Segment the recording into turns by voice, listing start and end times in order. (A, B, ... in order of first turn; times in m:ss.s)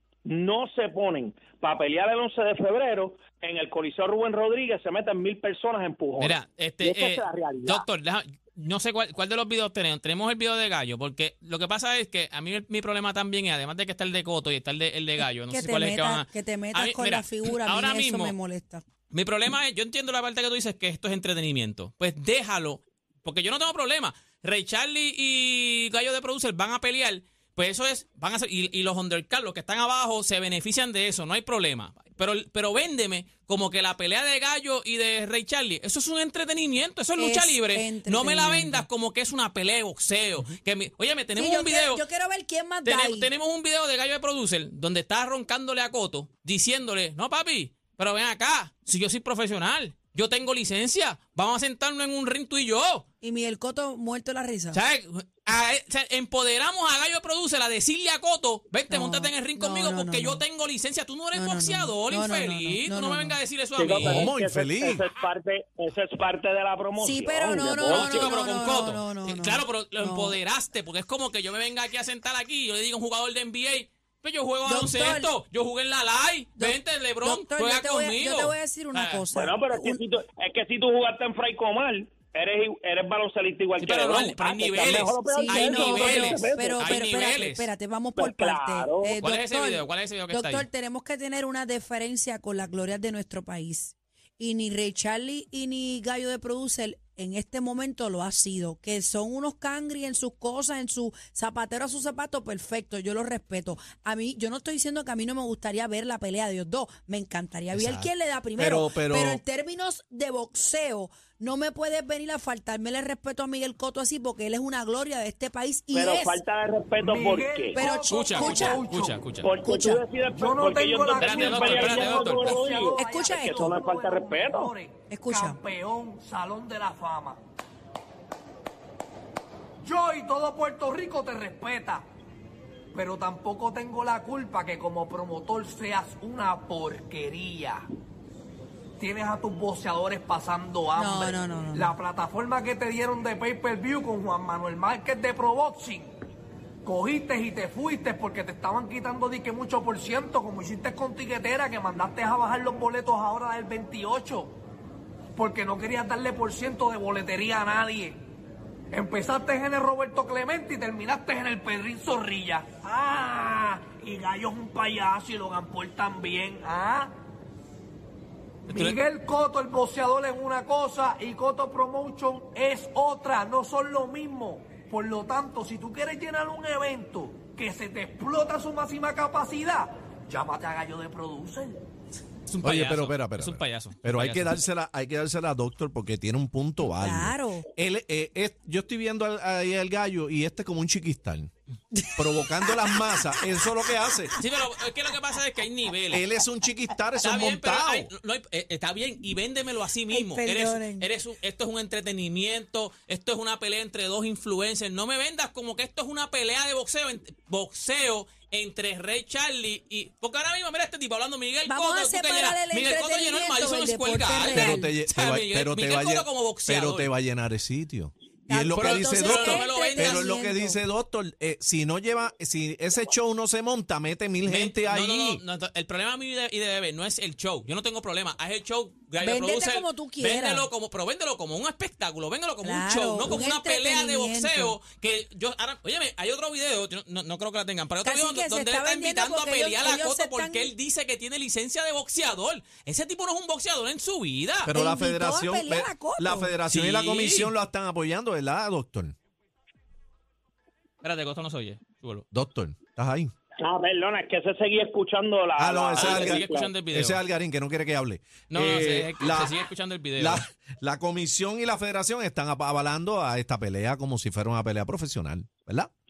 0:00.2-0:07.8 A
0:06.2-0:18.4 B
0:15.5-0:18.8 C
0:19.1-0:42.0 B
0:37.2-0:38.9 C
0:41.4-0:43.3 C
0:42.8-0:53.0 B
0:53.2-0:54.8 C
0:54.7-1:04.3 B
0:58.9-1:00.4 C
1:01.3-1:03.4 C
1:03.8-1:08.3 A
1:03.9-1:05.0 D
1:07.0-1:10.4 C
1:07.9-1:19.2 B
1:14.6-1:15.3 C
1:16.6-1:20.0 C
1:19.3-1:26.9 A
1:23.8-1:27.7 B
1:24.8-1:56.4 C
1:28.2-1:29.2 A
1:29.2-1:30.7 B
1:47.7-1:49.4 D
1:55.9-1:57.8 A
1:57.0-1:59.2 E
1:57.7-1:58.8 C
1:58.1-1:59.5 B
1:59.4-2:04.7 A
1:59.6-2:00.0 C
2:00.3-2:07.4 E
2:01.2-2:02.5 B
2:02.9-2:03.8 C
2:05.1-2:05.6 C
2:09.8-2:12.0 E
2:12.9-2:17.8 E
2:19.0-2:26.1 E
2:20.9-2:21.9 C
2:26.8-2:34.5 E
2:35.4-2:38.2 E
2:38.9-2:47.1 E
2:48.7-2:49.0 B
2:48.7-3:01.8 E
3:02.5-3:04.5 B
3:02.6-3:11.5 D
3:07.0-3:07.7 C
3:12.0-3:14.2 C
3:12.2-3:14.3 D
3:14.4-3:16.2 B
3:16.1-3:18.1 D
3:17.2-3:37.1 B
3:20.1-3:21.1 C
3:31.6-3:34.9 C
3:34.4-3:45.4 D
3:38.4-3:40.8 C
3:38.8-3:40.3 B
3:44.4-4:04.7 B
3:49.2-3:50.7 C
3:52.6-3:54.8 C
3:58.0-4:00.7 C
4:04.6-4:09.1 D
4:04.7-4:06.5 C
4:06.7-4:07.5 B
4:11.0-4:12.2 B
4:12.3-4:13.3 D
4:13.6-4:16.7 A
4:15.6-4:19.6 D
4:15.9-4:17.2 B
4:18.5-4:20.4 B
4:20.2-4:25.9 D